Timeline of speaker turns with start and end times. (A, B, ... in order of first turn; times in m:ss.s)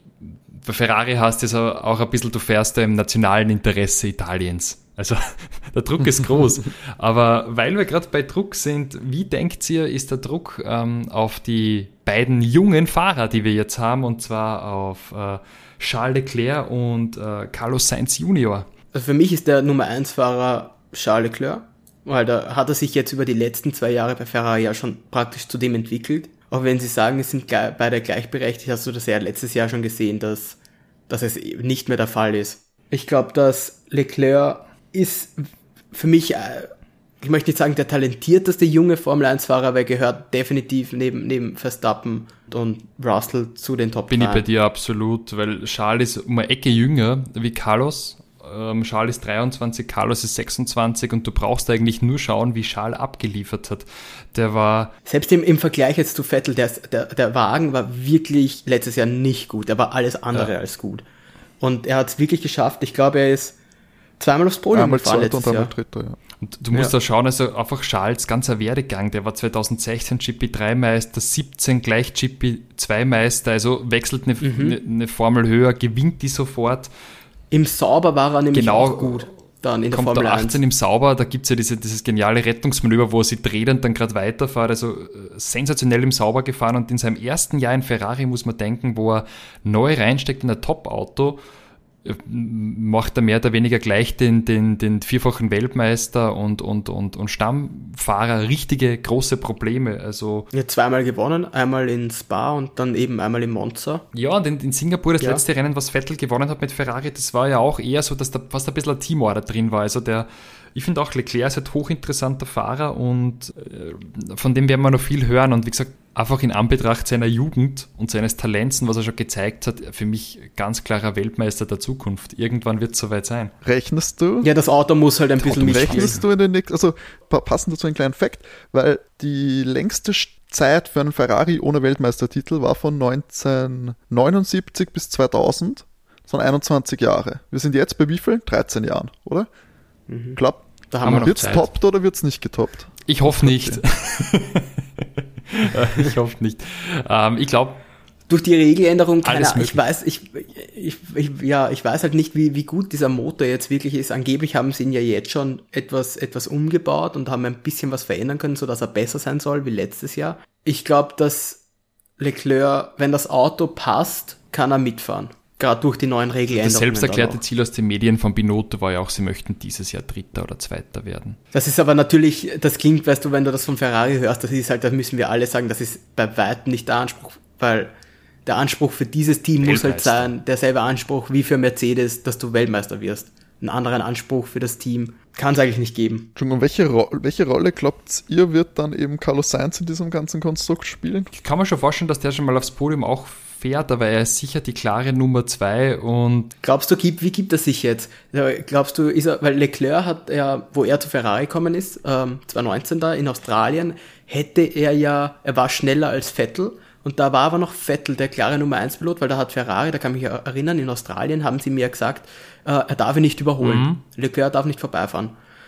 0:00.2-0:18.7 A
0:18.9-0:30.6 B
0:31.1-0:44.4 B
0:44.1-0:54.9 A
0:55.1-1:01.0 B
1:01.6-1:03.6 B
1:04.2-1:05.7 B
1:04.7-1:06.2 C
1:06.4-1:16.9 A
1:14.4-1:14.8 B
1:17.5-1:20.6 B
1:18.5-1:19.3 A
1:19.9-1:31.4 A
1:32.0-1:40.5 A
1:40.5-1:44.0 B
1:44.1-2:03.5 A
2:03.6-2:04.5 C
2:04.4-2:06.2 B
2:05.4-2:19.5 C
2:05.5-2:06.2 A
2:20.1-2:20.4 B
2:20.4-2:23.8 C
2:20.9-2:21.7 B
2:21.0-2:21.6 A
2:23.1-2:27.8 A
2:28.3-2:41.6 B
2:29.2-2:29.8 A
2:42.2-2:47.4 B
2:46.6-2:51.4 A
2:51.5-2:57.9 B
2:58.5-3:06.3 B
2:59.6-3:00.3 A
3:06.4-3:11.3 C
3:11.3-3:16.5 A
3:16.6-3:35.4 B
3:33.6-3:34.0 A